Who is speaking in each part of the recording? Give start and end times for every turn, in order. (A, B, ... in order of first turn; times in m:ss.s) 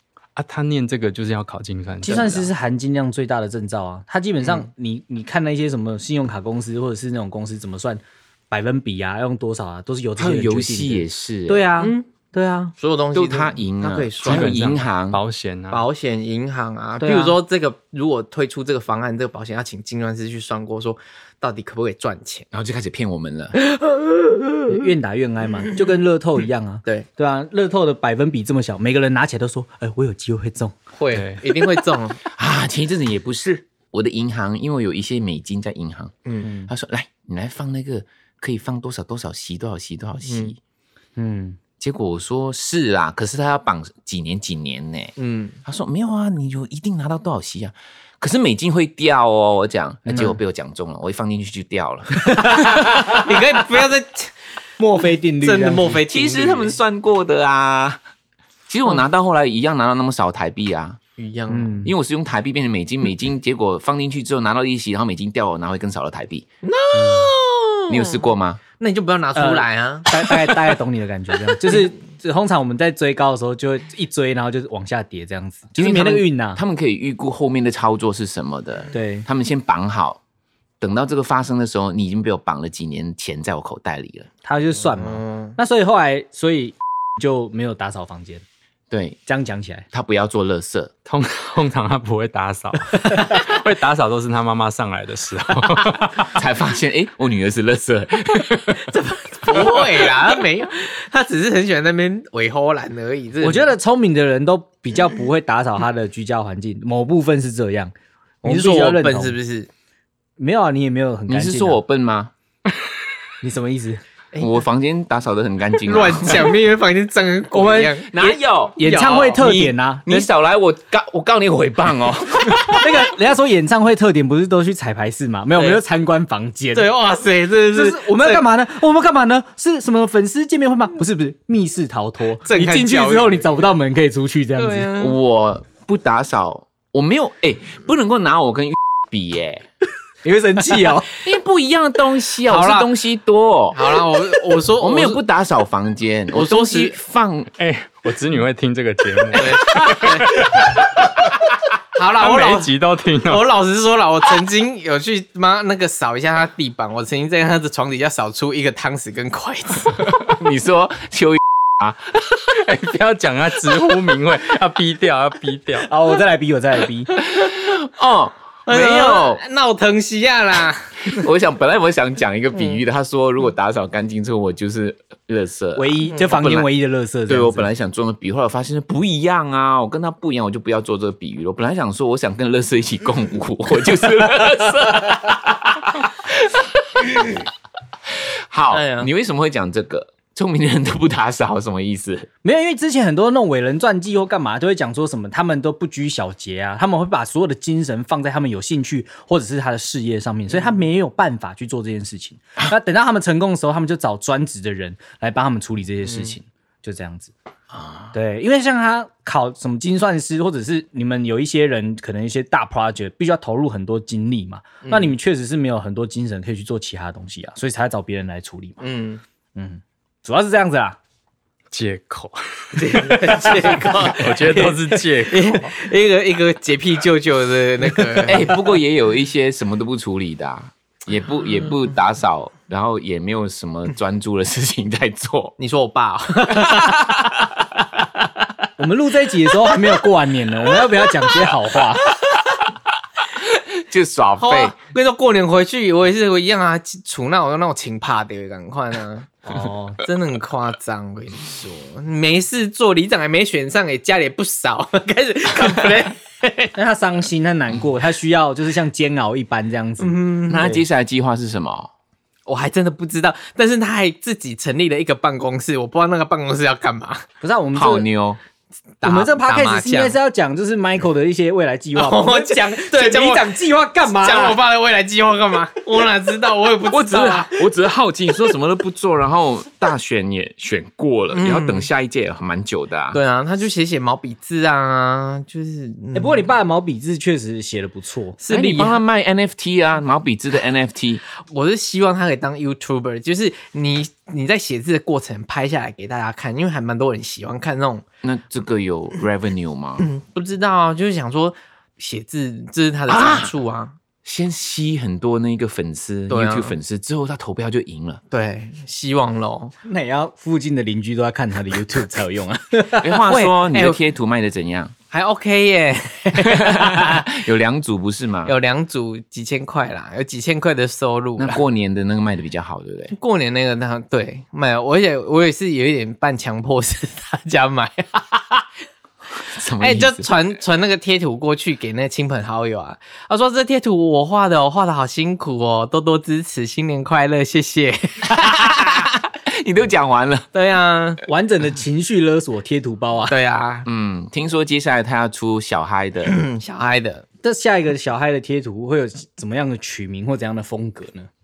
0:00.4-0:02.5 A
0:02.0-0:12.7 B
0:02.0-0:02.3 C
0:10.2-0:11.7 C
0:11.8-0:12.1 D
0:12.8-0:14.6 D
0:13.1-0:15.2 C
0:14.2-0:15.8 A
0:14.4-0:14.7 B
0:15.7-0:22.5 D
0:17.0-0:17.4 B
0:22.5-0:23.6 C
0:23.6-0:24.8 D
0:24.7-0:30.8 B
0:31.0-0:32.2 D
0:31.1-0:31.4 A
0:32.3-0:40.6 C
0:36.2-0:36.5 D
0:36.4-0:36.7 B
0:40.2-0:40.6 D
0:41.2-0:41.6 B
0:41.8-0:52.9 C
0:45.2-0:45.6 D
0:50.1-0:50.4 B
0:52.2-0:53.2 B
0:52.6-0:54.3 D
0:54.8-0:56.0 B
0:55.4-0:56.8 D
0:56.1-0:58.0 C
0:58.7-1:01.0 C
1:01.2-1:01.8 D
1:01.5-1:01.9 B
1:01.8-1:06.5 C
1:06.6-1:08.3 D
1:06.9-1:07.3 B
1:07.9-1:08.6 C
1:08.8-1:10.7 D
1:09.4-1:16.6 B
1:15.8-1:20.2 C
1:18.9-1:19.3 B
1:20.8-1:24.3 C
1:24.4-1:28.4 B
1:24.9-1:25.6 D
1:28.9-1:29.2 C
1:29.3-1:29.9 B
1:29.9-1:30.9 C
1:31.1-1:36.4 A
1:36.3-1:39.0 C
1:38.8-1:43.7 D
1:39.6-1:39.9 C
1:43.4-1:49.4 B
1:48.4-1:49.7 D
1:50.4-1:51.8 B
1:51.3-1:52.3 C
1:53.4-1:54.0 B
1:54.3-1:54.6 D
1:54.4-1:56.6 C
1:55.8-1:59.4 D
1:57.5-2:00.3 B
1:58.0-2:03.0 C
2:02.7-2:06.9 B
2:05.6-2:05.8 D
2:06.7-2:08.5 D
2:07.7-2:14.9 B
2:12.4-2:13.4 D
2:14.6-2:15.2 D
2:15.0-2:19.6 C
2:20.2-2:21.2 B
2:21.2-2:24.0 C
2:22.5-2:22.9 D
2:23.7-2:25.2 D
2:24.8-2:27.5 C
2:26.3-2:27.0 D
2:27.6-2:31.0 A
2:29.4-2:30.5 D
2:32.0-2:32.7 D
2:32.2-2:33.4 A
2:33.2-2:40.1 D
2:40.2-2:42.2 C
2:42.5-2:45.9 A
2:45.8-2:47.2 B
2:47.2-2:49.4 C
2:48.7-2:51.2 D
2:51.1-2:56.7 C
2:55.8-2:57.7 B
2:57.3-3:07.4 C
3:08.1-3:12.3 C
3:08.7-3:09.1 D
3:12.4-3:27.3 B
3:26.0-3:26.4 D
3:27.7-3:28.1 C
3:28.1-3:38.8 B
3:34.8-3:35.1 D
3:38.8-3:39.2 D
3:39.6-3:41.0 B
3:41.7-3:45.7 A
3:42.8-3:48.6 D
3:43.4-3:44.1 C
3:48.2-3:55.6 C
3:55.6-3:57.1 D
3:56.7-3:57.2 C
3:58.8-4:02.2 B
4:03.5-4:04.8 C
4:04.4-4:09.4 D
4:09.5-4:10.0 B
4:10.0-4:16.7 D
4:16.8-4:20.8 B
4:20.0-4:20.8 D
4:20.5-4:21.9 C
4:22.5-4:27.2 D
4:27.4-4:28.1 B
4:27.7-4:28.4 C
4:29.0-4:30.2 D
4:29.0-4:34.6 B
4:32.0-4:37.5 D
4:36.9-4:43.2 C
4:41.3-4:41.9 D
4:43.1-4:46.4 D
4:46.1-4:48.4 B
4:48.4-4:49.0 D
4:48.5-4:51.2 C
4:51.4-4:58.0 D
4:58.2-5:00.1 C
5:00.0-5:04.0 D
5:03.1-5:03.6 C
5:04.2-5:08.2 C
5:06.3-5:06.7 D
5:08.3-5:09.8 D
5:09.8-5:13.3 B
5:13.0-5:15.0 C
5:13.2-5:14.0 D
5:15.1-5:17.2 D
5:16.4-5:18.5 C
5:18.4-5:21.6 D
5:21.4-5:23.1 C
5:23.1-5:28.6 D
5:29.5-5:30.3 C
5:29.8-5:39.1 D
5:38.4-5:40.5 C
5:40.5-5:41.2 D
5:41.3-5:43.4 B
5:43.3-5:43.9 D
5:43.9-5:46.4 C
5:46.2-5:47.2 D
5:47.4-5:51.3 B